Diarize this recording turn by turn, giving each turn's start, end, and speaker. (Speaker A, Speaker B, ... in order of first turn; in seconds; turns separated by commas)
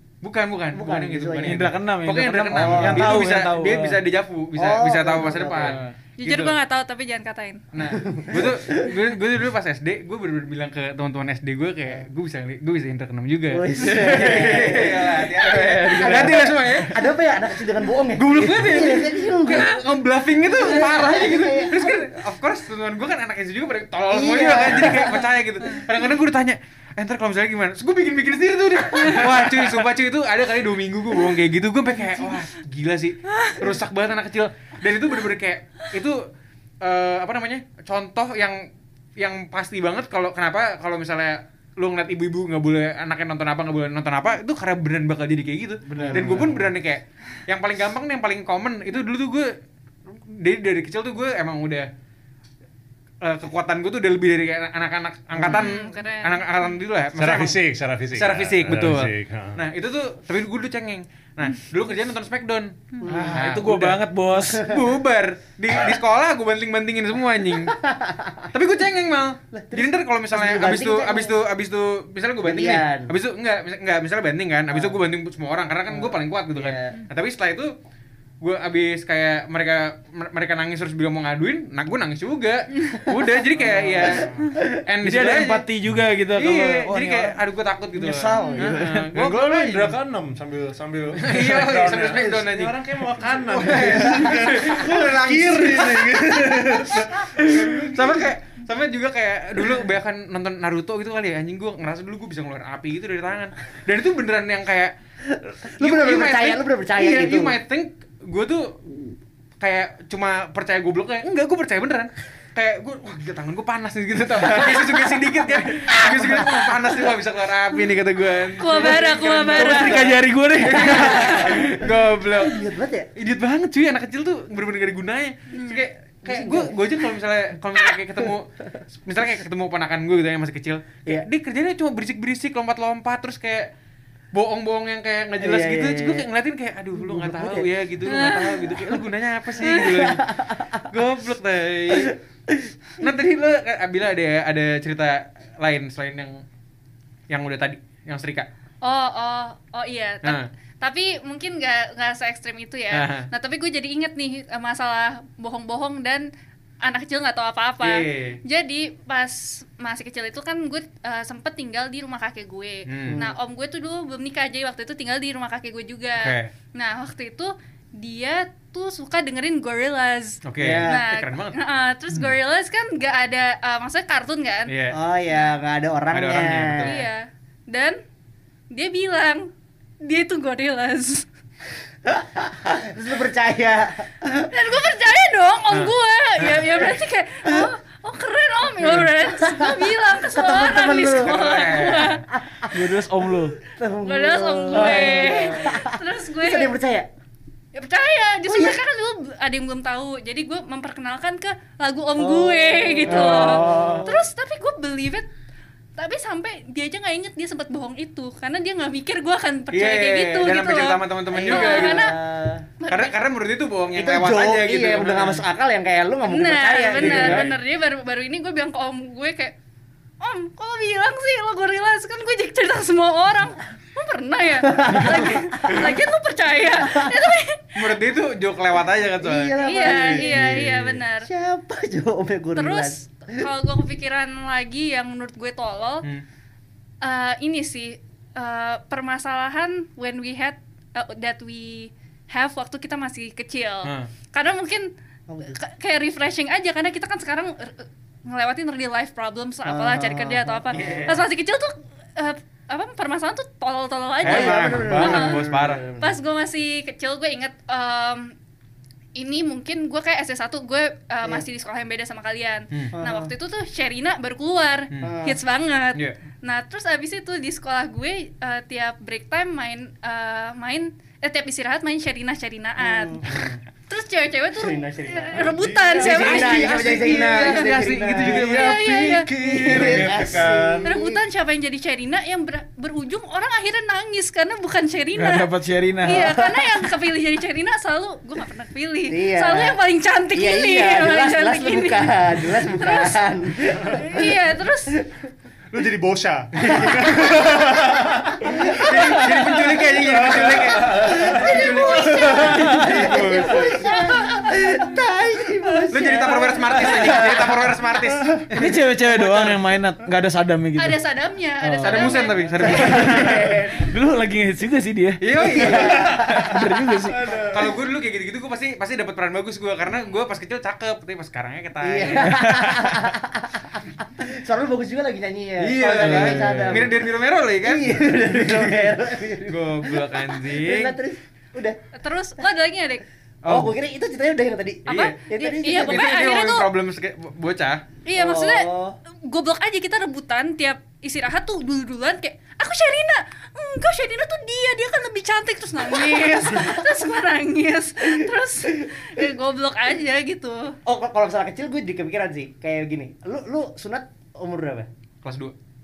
Speaker A: 0.2-6.6, Speaker B: 0.7-1.7, Speaker C: 1.4-4.0, Speaker B: 2.5-3.2, Speaker B: 4.6-5.8, Speaker C: 5.6-5.9, Speaker D: 6.2-7.6, Speaker A: 7.7-17.1, Speaker B: 7.9-8.9, Speaker B: 13.5-19.8, Speaker C: 13.8-14.7, Speaker C: 15.5-16.9, Speaker A: 18.1-36.2, Speaker B: 20.5-22.0, Speaker B: 24.1-25.3, Speaker A: 36.8-38.6, Speaker A: 39.2-49.5, Speaker C: 45.9-46.7, Speaker B: 46.0-46.5, Speaker A: 50.1-51.9, Speaker A: 53.2-57.6, Speaker D: 55.4-56.7, Speaker E: 57.2-59.6, Speaker A: 58.1-67.8, Speaker B: 63.0-63.5, Speaker C: 63.1-64.7, Speaker B: 64.4-64.9, Speaker B: 67.7-68.5, Speaker A: 68.5-77.7, Speaker B: 69.5-71.4, Speaker B: 72.4-73.1, Speaker B: 74.7-75.0, Speaker B: 75.9-77.0, Speaker A: 78.4-85.7, Speaker C: 83.6-84.2, Speaker C: 85.0-87.4, Speaker A: 86.3-90.0, Speaker C: 87.9-89.1, Speaker D: 88.4-88.7, Speaker E: 89.1-98.2, Speaker A: 91.2-104.9, Speaker B: 105.3-107.6, Speaker A: 105.8-108.8, Speaker A: 109.6-122.7, Speaker D: 118.6-120.0, Speaker C: 119.5-121.8, Speaker B: 120.6-123.1, Speaker A: 123.2-128.5, Speaker D: 125.5-125.8, Speaker B: 126.2-126.8, Speaker A: 129.0-133.7, Speaker A: 134.3-142.2, Speaker B: 135.4-136.3, Speaker B: 136.9-137.7, Speaker D: 138.1-138.8, Speaker B: 139.7-140.9, Speaker B: 142.0-142.7, Speaker A: 143.0-146.4, Speaker A: 147.3-148.5, Speaker D: 148.8-156.3, Speaker A: 152.9-153.3, Speaker D: 156.8-174.7, Speaker A: 157.8-158.4, Speaker A: 162.9-163.2, Speaker B: 163.1-163.4, Speaker A: 166.2-166.5, Speaker A: 170.4-171.6, Speaker B: 170.6-171.0, Speaker A: 174.7-175.0, Speaker B: 174.9-177.0, Speaker A: 176.1-177.0, Speaker D: 176.8-178.0, Speaker D: 178.7-179.5, Speaker D: 180.0-181.3, Speaker B: 182.1-184.5, Speaker D: 184.5-192.2, Speaker B: 188.8-191.4, Speaker A: 191.1-192.2, Speaker B: 192.3-192.9, Speaker C: 192.7-193.6, Speaker B: 193.6-197.1, Speaker D: 194.0-196.7, Speaker C: 194.7-195.4, Speaker D: 197.8-205.3, Speaker B: 198.5-198.8, Speaker B: 202.2-204.2, Speaker C: 203.1-204.1, Speaker D: 206.0-212.2, Speaker A: 209.7-212.1, Speaker B: 211.3-212.7, Speaker D: 212.8-213.1, Speaker A: 212.9-215.5, Speaker B: 213.9-217.5, Speaker D: 216.3-219.6, Speaker A: 216.9-217.6, Speaker D: 220.2-227.8, Speaker B: 224.6-225.9, Speaker B: 226.7-227.3, Speaker A: 227.8-230.3, Speaker B: 229.2-233.5, Speaker D: 229.6-231.3, Speaker E: 230.4-230.9, Speaker D: 232.6-236.1, Speaker D: 237.0-244.9, Speaker A: 243.8-244.1, Speaker B: 245.3-245.6, Speaker D: 245.5-255.5, Speaker B: 249.7-251.3, Speaker A: 250.7-251.1, Speaker A: 254.2-255.9, Speaker B: 254.2-256.2, Speaker D: 256.0-258.3, Speaker D: 259.2-273.3, Speaker B: 262.9-263.3, Speaker B: 265.0-265.4, Speaker A: 273.3-273.6, Speaker D: 273.9-279.3, Speaker B: 274.6-278.6, Speaker E: 275.5-280.9, Speaker A: 276.9-278.9, Speaker B: 279.4-281.2, Speaker A: 279.7-280.0, Speaker C: 280.1-280.5, Speaker D: 280.8-293.2, Speaker C: 285.1-286.5, Speaker B: 286.1-286.6, Speaker B: 289.1-289.8, Speaker B: 290.3-295.2, Speaker D: 293.8-295.0, Speaker E: 295.7-303.5, Speaker B: 296.7-299.2, Speaker A: 298.7-303.8, Speaker B: 300.7-307.7, Speaker D: 301.2-302.9, Speaker D: 303.8-304.9, Speaker A: 305.9-309.6, Speaker C: 308.6-311.0, Speaker D: 310.8-312.9, Speaker C: 311.6-317.2, Speaker A: 311.8-313.3, Speaker B: 312.6-313.9, Speaker E: 312.7-313.5, Speaker A: 315.2-316.1, Speaker B: 315.4-316.6, Speaker E: 315.9-317.7, Speaker A: 317.5-322.4, Speaker B: 321.8-327.0, Speaker C: 322.2-323.1, Speaker A: 325.6-331.0, Speaker C: 325.9-326.9, Speaker B: 327.6-331.8, Speaker D: 331.9-333.0, Speaker B: 333.5-336.2, Speaker D: 334.9-336.7, Speaker A: 334.9-335.1, Speaker A: 335.7-337.8, Speaker D: 338.1-338.7, Speaker B: 338.1-339.0, Speaker D: 339.2-350.8, Speaker B: 346.1-346.8, Speaker B: 350.9-354.9, Speaker A: 355.2-355.5